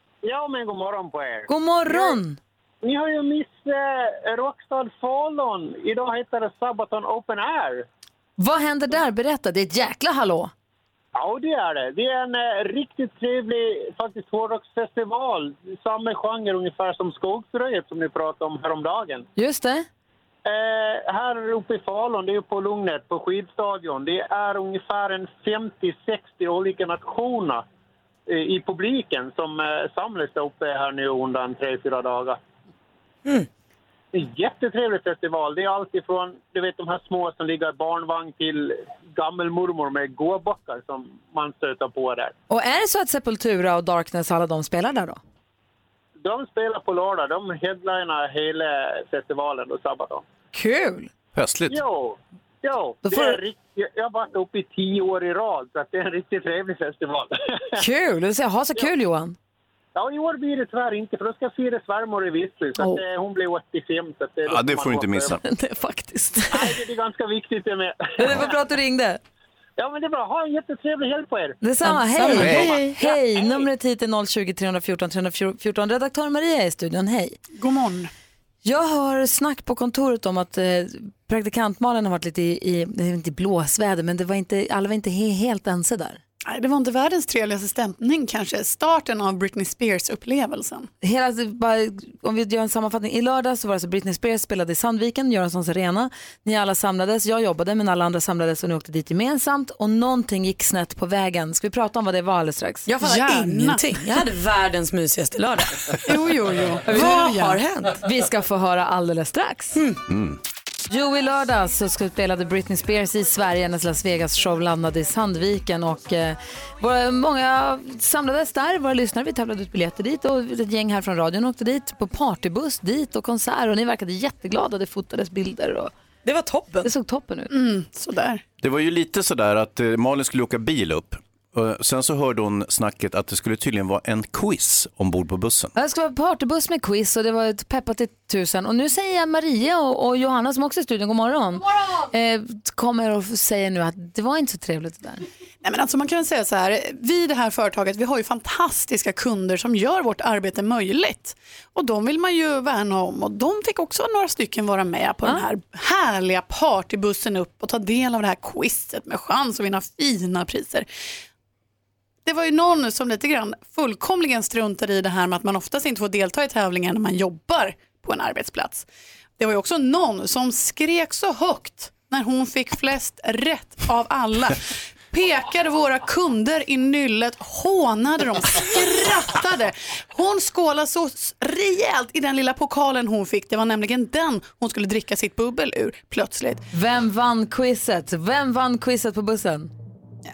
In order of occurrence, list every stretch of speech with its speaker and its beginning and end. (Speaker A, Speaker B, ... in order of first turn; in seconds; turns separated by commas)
Speaker A: 0.2-2.2, Speaker B: 1.5-2.4, Speaker A: 2.8-7.8, Speaker B: 8.4-10.5, Speaker A: 11.1-19.2, Speaker B: 19.4-19.9, Speaker A: 20.4-27.6, Speaker A: 28.3-32.4, Speaker A: 34.1-42.3, Speaker B: 42.5-45.2, Speaker A: 46.2-50.2, Speaker B: 50.5-51.1, Speaker C: 51.3-51.8, Speaker A: 51.7-57.8, Speaker B: 53.0-53.4, Speaker B: 57.8-59.4, Speaker A: 59.9-65.4, Speaker B: 62.8-63.0, Speaker C: 64.5-65.4, Speaker B: 65.4-66.7, Speaker A: 66.5-68.4, Speaker B: 68.2-69.2, Speaker A: 69.8-71.6, Speaker B: 71.6-77.4, Speaker A: 72.3-73.7, Speaker C: 72.3-72.8, Speaker D: 77.5-78.1, Speaker B: 78.6-86.2, Speaker D: 86.5-90.9, Speaker B: 91.0-102.9, Speaker E: 102.9-106.0, Speaker D: 103.0-103.9, Speaker D: 106.0-107.6, Speaker E: 106.9-108.0, Speaker B: 106.9-107.2, Speaker B: 107.9-109.8, Speaker E: 109.7-110.0, Speaker C: 110.1-110.4, Speaker B: 110.9-125.9, Speaker E: 126.2-126.9, Speaker B: 126.8-127.5, Speaker D: 127.5-128.4, Speaker C: 128.6-135.7, Speaker B: 135.8-145.2, Speaker D: 145.6-160.8, Speaker D: 162.2-168.9, Speaker D: 169.4-186.7, Speaker B: 186.7-189.7